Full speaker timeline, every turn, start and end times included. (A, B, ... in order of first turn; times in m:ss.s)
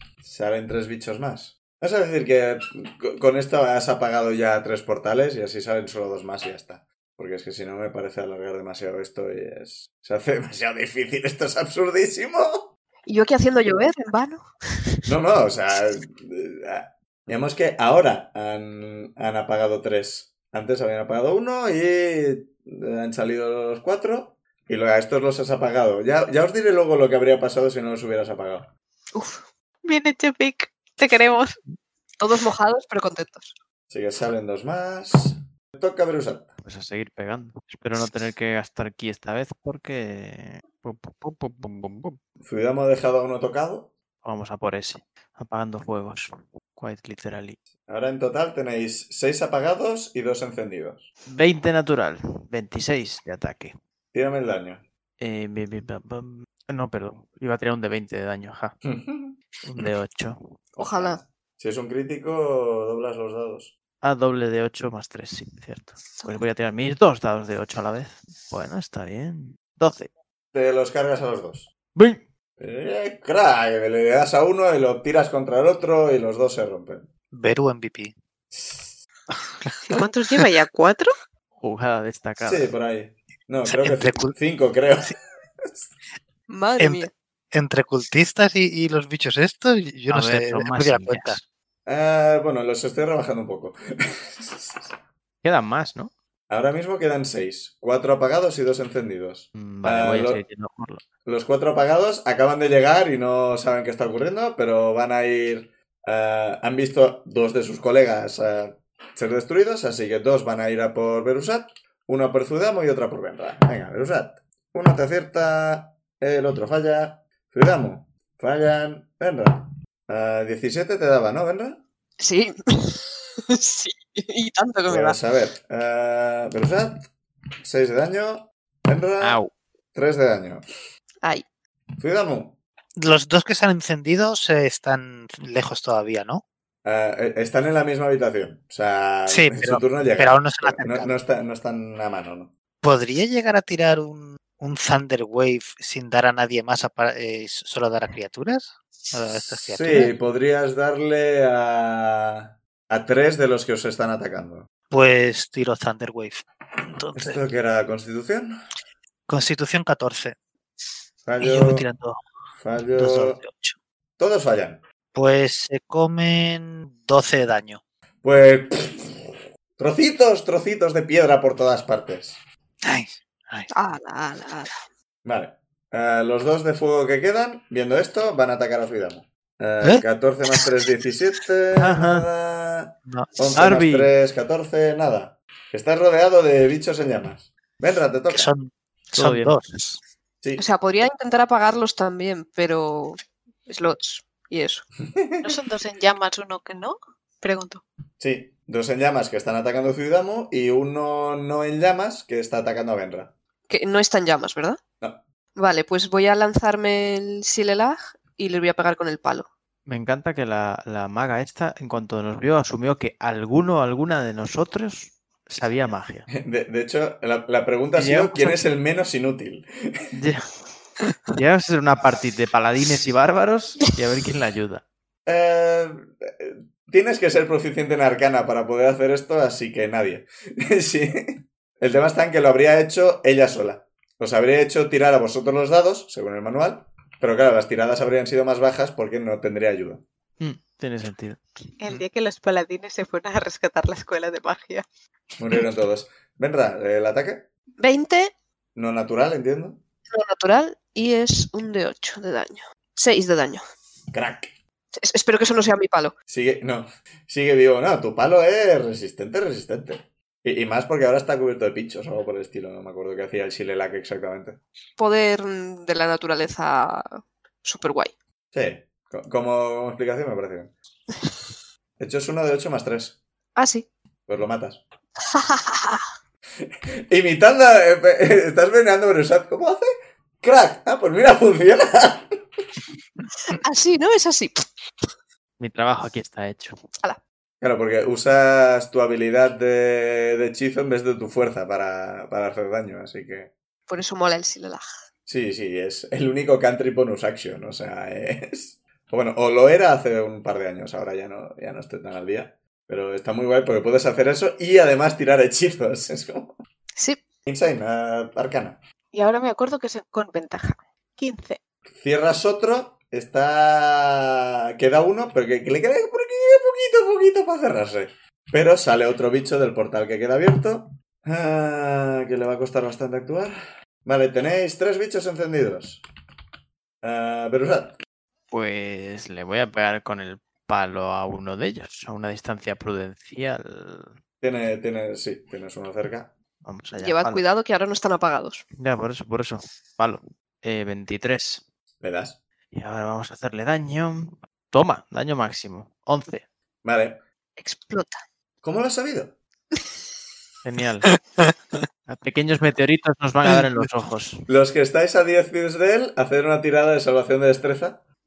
0:00.2-0:12.7 A
0:13.1-0:14.5 B
0:15.1-0:28.7 A
0:29.1-0:29.4 B
0:29.8-0:31.6 C
0:32.2-0:33.5 B
0:33.9-0:36.5 A
0:36.6-0:42.2 D
0:42.4-0:43.9 A
0:44.2-0:47.6 D
0:47.9-0:51.1 A
0:51.3-0:53.7 D
0:54.1-0:54.8 A
0:55.2-0:58.8 D
0:58.8-0:59.9 A
0:59.6-1:00.4 D
1:00.8-1:03.7 A
1:00.8-1:01.2 B
1:04.0-1:10.1 D
1:10.5-1:11.7 A
1:11.9-1:12.2 D
1:12.6-1:17.1 A
1:17.3-1:18.1 E
1:18.5-1:19.0 A
1:19.6-1:20.4 E
1:19.8-1:21.1 C
1:21.6-1:22.7 D
1:22.4-1:25.9 A
1:23.6-1:24.3 E
1:26.5-1:27.1 B
1:26.8-1:31.4 E
1:30.1-1:31.4 D
1:31.8-1:34.9 A
1:35.4-1:36.1 D
1:36.5-1:40.4 A
1:39.5-1:41.0 D
1:41.2-2:01.8 A
2:02.2-2:05.2 B
2:04.9-2:07.0 A
2:07.6-2:09.4 A
2:09.2-2:09.5 D
2:09.9-2:10.6 A
2:12.0-2:12.6 A
2:13.0-2:16.4 E
2:16.8-2:22.5 A
2:19.3-2:21.1 E
2:22.8-2:30.1 E
2:29.5-2:34.7 A
2:34.9-2:37.4 E
2:37.1-2:38.6 A
2:39.3-2:40.4 E
2:41.2-2:41.8 A
2:41.4-2:42.2 E
2:42.6-2:43.4 A
2:42.9-2:43.8 E
2:44.2-2:44.8 A
2:45.1-2:47.8 E
2:48.2-2:52.4 A
2:52.8-2:53.7 E
2:53.7-2:54.8 B
2:55.2-3:08.5 A
3:01.8-3:02.2 D
3:03.0-3:03.4 E
3:03.5-3:04.1 D
3:08.3-3:10.0 E
3:09.1-3:09.8 D
3:10.6-3:14.8 B
3:15.1-3:15.5 A
3:15.4-3:17.8 C
3:18.2-3:23.3 A
3:23.7-3:24.8 B
3:25.6-3:29.5 B
3:29.9-3:36.3 D
3:36.3-3:40.0 A
3:37.9-3:38.6 D
3:40.1-3:40.4 D
3:41.3-3:44.8 D
3:45.2-4:00.0 A
4:00.4-4:01.4 D
4:01.8-4:04.8 C
4:05.4-4:07.5 A
4:07.8-4:08.3 B
4:08.7-4:09.8 A
4:10.1-4:13.6 B
4:14.1-4:14.5 A
4:15.0-4:16.1 B
4:16.3-4:24.6 A
4:25.0-4:28.1 B
4:28.5-4:30.7 A
4:32.0-4:33.2 A
4:33.6-4:33.9 B
4:34.3-4:34.8 A
4:35.3-4:36.0 B
4:36.6-4:39.9 A
4:40.4-4:42.3 A
4:43.5-4:44.6 B
4:45.6-4:46.7 D
4:47.6-4:53.5 A
4:53.9-4:54.8 B
4:55.3-5:06.6 A
5:07.4-5:08.8 A
5:09.1-5:11.6 C
5:12.0-5:26.0 A
5:27.0-5:28.0 A
5:28.5-5:34.1 D
5:34.4-5:36.3 A
5:36.6-5:37.4 D
5:37.0-5:38.6 B
5:38.8-5:41.6 D
5:42.0-5:42.4 A
5:42.7-5:46.4 D
5:46.8-5:47.2 A
5:47.6-5:48.2 B
5:48.6-5:49.3 A
5:50.6-5:51.1 D
5:52.1-5:54.4 D
5:53.5-5:53.8 E
5:54.5-5:58.0 A